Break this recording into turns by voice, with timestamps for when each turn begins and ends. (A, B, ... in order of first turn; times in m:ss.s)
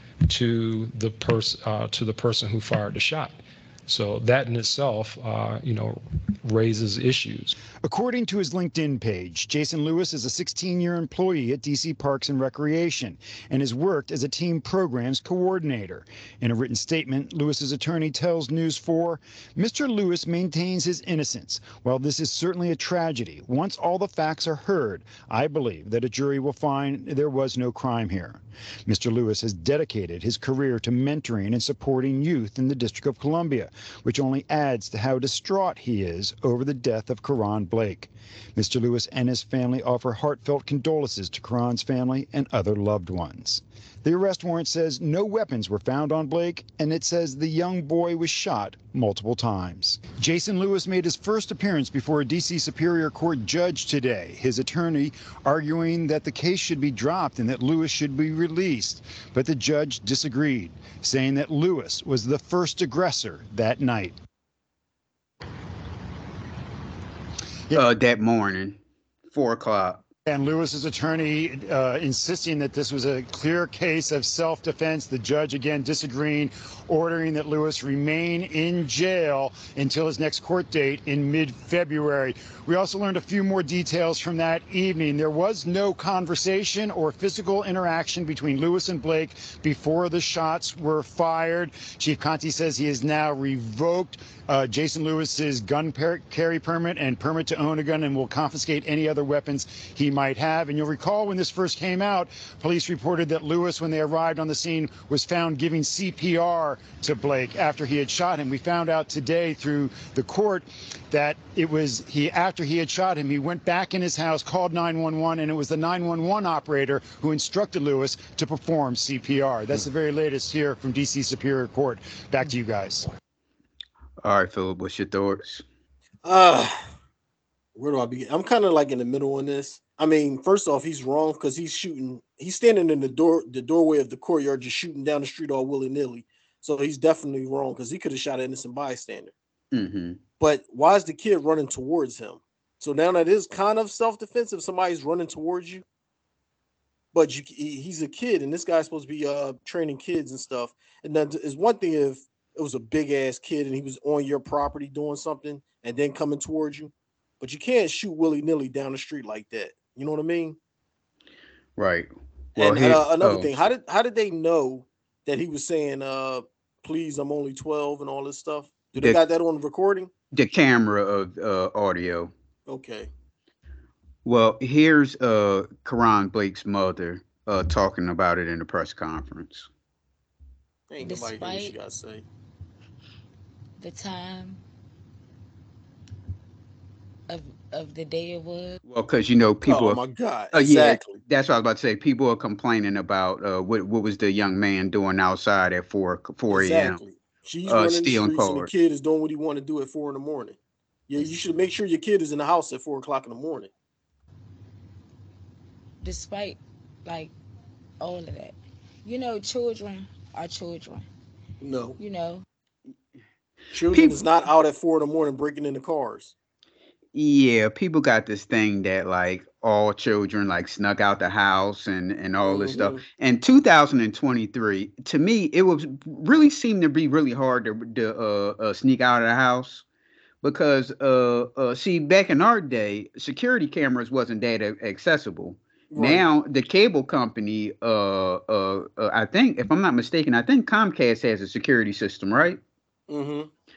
0:00.3-0:07.6 A
0:07.8-1:04.2 B
1:07.7-1:08.8 C
1:09.3-1:10.0 C
1:10.2-2:03.1 B
2:04.2-2:05.6 C
2:06.2-2:06.7 D
2:07.8-2:19.3 D
2:19.7-2:20.2 C
2:20.4-2:25.8 D
2:27.1-2:40.6 D
2:41.8-2:43.6 C
2:42.6-2:50.1 D
2:50.3-2:52.3 C
2:52.7-2:53.1 D
2:54.2-2:59.7 C
3:00.9-3:02.2 D
3:01.0-3:01.7 E
3:03.8-3:04.6 E
3:07.3-3:08.8 E
3:08.8-3:10.0 C
3:09.6-3:11.2 D
3:10.5-3:17.0 C
3:16.5-3:20.6 D
3:17.7-3:18.7 C
3:21.1-3:23.7 D
3:26.0-3:27.3 E
3:28.0-3:31.1 E
3:31.6-3:32.0 D
3:32.0-3:32.4 E
3:33.7-3:36.3 D
3:33.9-3:34.2 C
3:37.1-3:49.8 C
3:42.4-3:43.0 D
3:50.4-4:02.6 C
3:55.9-3:56.2 D
4:03.1-4:03.5 D